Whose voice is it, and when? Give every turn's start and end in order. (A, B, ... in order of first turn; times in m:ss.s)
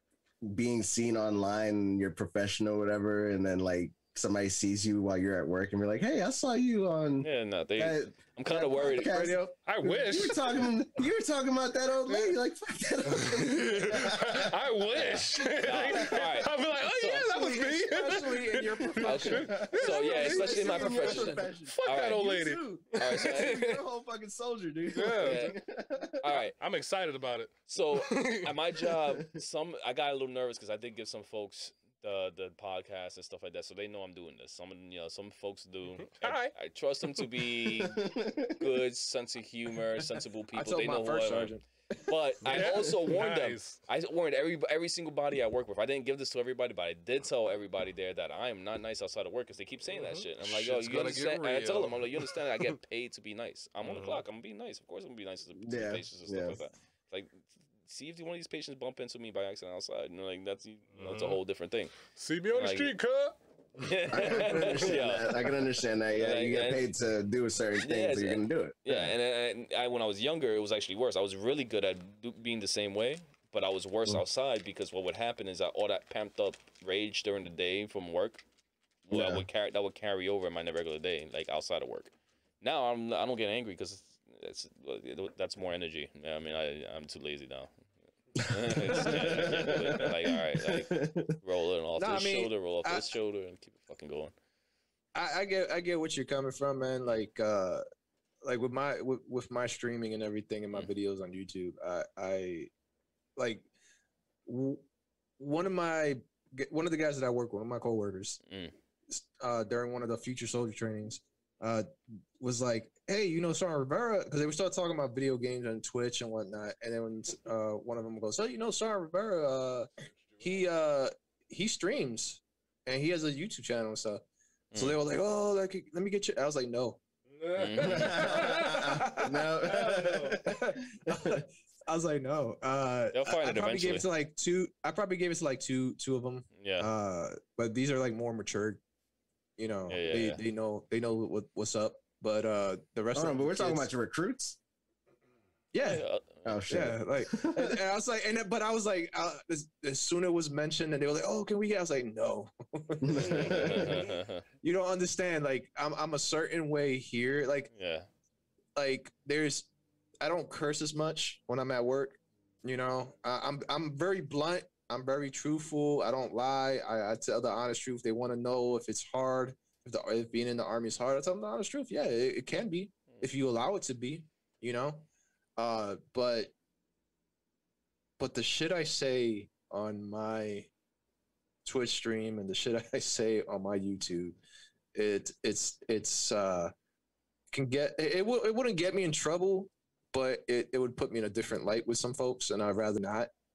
0:00.4-0:14.5 A
0:07.2-0:09.4 B
0:09.6-0:10.5 C
0:12.1-0:12.4 C
0:13.0-0:23.8 C
0:14.4-0:17.4 B
0:15.8-0:16.2 A
0:17.3-0:21.4 D
0:17.9-0:26.2 A
0:19.0-0:23.6 B
0:24.9-0:25.5 C
0:25.2-0:25.6 B
0:26.2-0:26.5 B
0:26.3-0:28.9 C
0:27.7-0:41.5 B
0:36.2-0:36.5 C
0:37.8-0:38.5 A
0:40.5-0:41.6 D
0:42.1-1:02.0 B
0:42.5-0:43.8 C
0:49.9-0:52.7 C
0:53.8-0:54.2 C
0:55.6-0:56.6 A
1:01.0-1:01.4 C
1:02.1-1:03.9 C
1:02.5-1:03.0 B
1:03.8-1:05.5 B
1:04.1-1:09.1 A
1:06.2-1:06.9 B
1:07.8-1:18.4 B
1:19.1-1:27.9 B
1:19.1-1:19.5 A
1:28.4-1:34.3 B
1:28.6-1:31.4 A
1:32.0-1:33.1 D
1:35.2-1:37.8 D
1:38.4-1:42.7 D
1:43.4-1:43.7 D
1:44.5-1:44.9 D
1:45.4-1:48.4 D
1:49.1-1:51.9 D
1:52.4-2:04.2 D
2:04.7-2:05.0 B
2:04.8-2:07.0 D
2:07.3-2:08.4 C
2:07.5-2:08.8 B
2:07.8-2:11.4 A
2:08.1-2:18.8 D
2:09.6-2:10.4 C
2:13.1-2:14.1 B
2:16.6-2:16.9 B
2:19.6-2:23.9 D
2:19.9-2:20.4 B
2:23.1-2:24.6 A
2:25.7-2:26.0 D
2:25.8-2:26.6 B
2:26.4-2:27.8 A
2:26.7-2:37.7 D
2:33.0-2:34.1 A
2:33.2-2:34.4 B
2:37.7-2:38.1 B
2:38.8-2:39.7 D
2:40.2-2:56.5 D
2:58.2-3:00.7 D
3:01.6-3:04.4 D
3:04.9-3:06.7 D
3:07.5-3:13.3 D